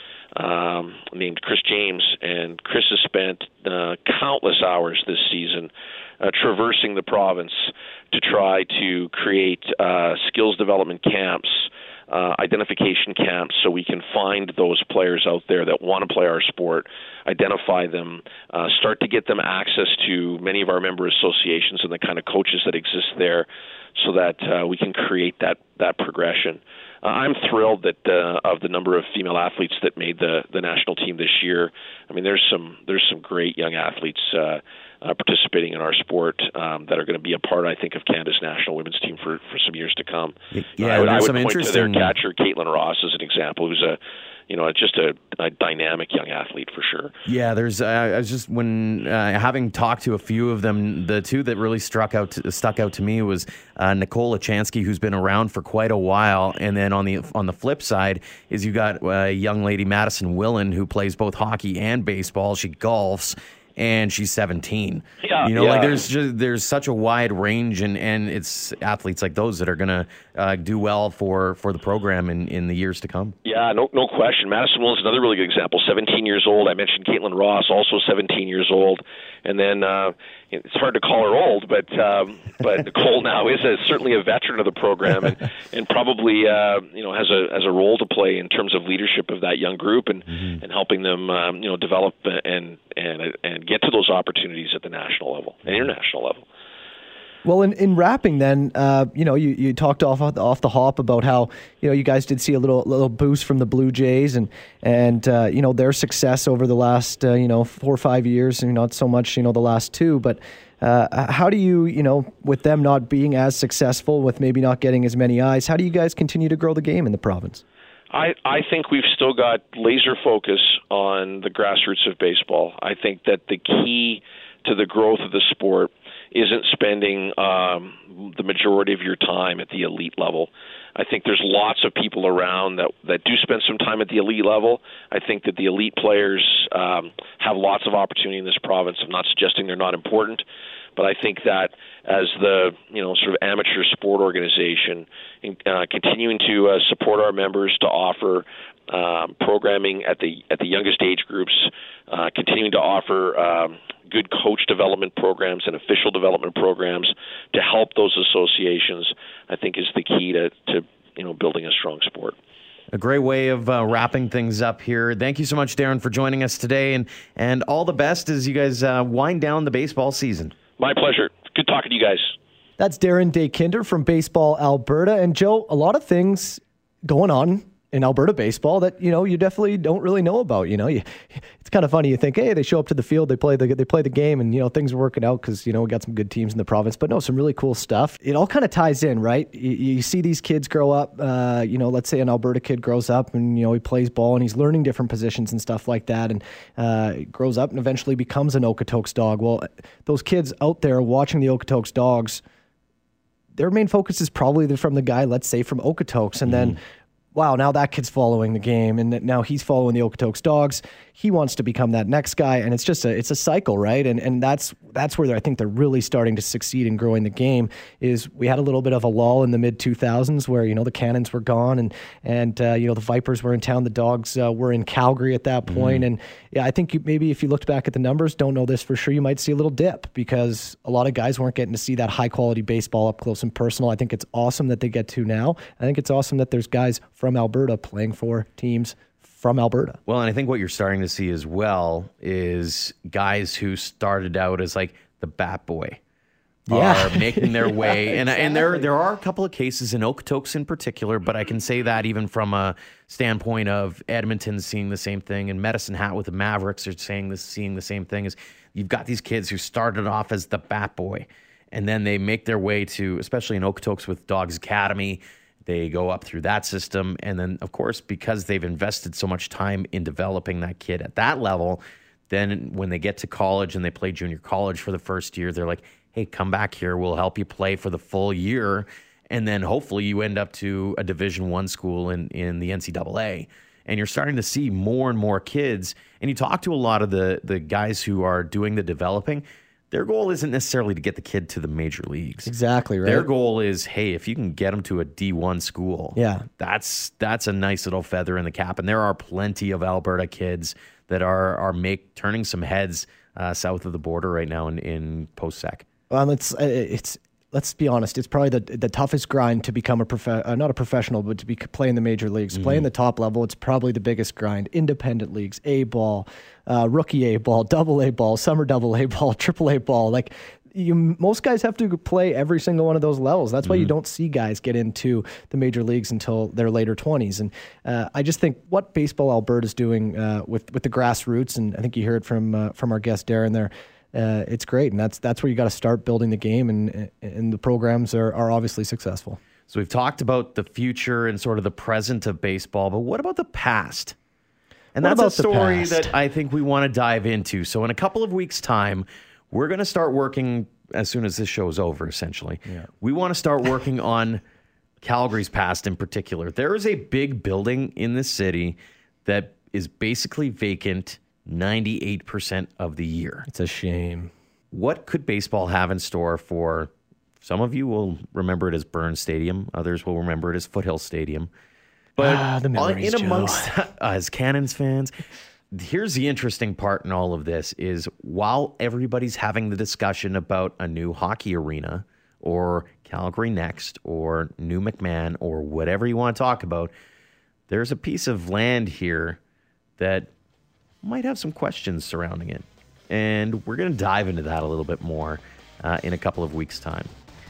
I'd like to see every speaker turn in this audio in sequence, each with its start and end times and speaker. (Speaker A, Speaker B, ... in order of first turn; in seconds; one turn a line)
Speaker A: 0.3-47.1
Speaker B: 40.5-42.1
Speaker B: 47.2-73.3
Speaker A: 65.2-66.0
Speaker A: 73.4-96.4
Speaker C: 97.4-117.6
Speaker A: 118.1-140.4
Speaker A: 141.0-162.3
Speaker B: 162.9-170.5
Speaker A: 170.8-172.3
Speaker C: 172.8-202.4
Speaker C: 203.6-206.8
Speaker B: 206.5-206.8
Speaker C: 207.3-240.0
Speaker B: 225.7-226.1
Speaker B: 240.1-246.0
Speaker B: 246.7-292.5
Speaker C: 246.7-248.8
Speaker C: 292.5-293.3
Speaker B: 293.0-305.8
Speaker C: 296.1-296.5
Speaker C: 306.1-339.4
Speaker B: 312.5-312.9
Speaker B: 339.7-344.1
Speaker B: 344.9-354.4
Speaker C: 345.0-346.1
Speaker B: 355.0-363.4
Speaker C: 363.5-364.3
Speaker B: 364.7-371.5
Speaker B: 372.1-375.1
Speaker C: 372.2-373.7
Speaker B: 375.7-386.9
Speaker B: 387.7-389.4
Speaker B: 390.0-390.3
Speaker B: 391.0-397.1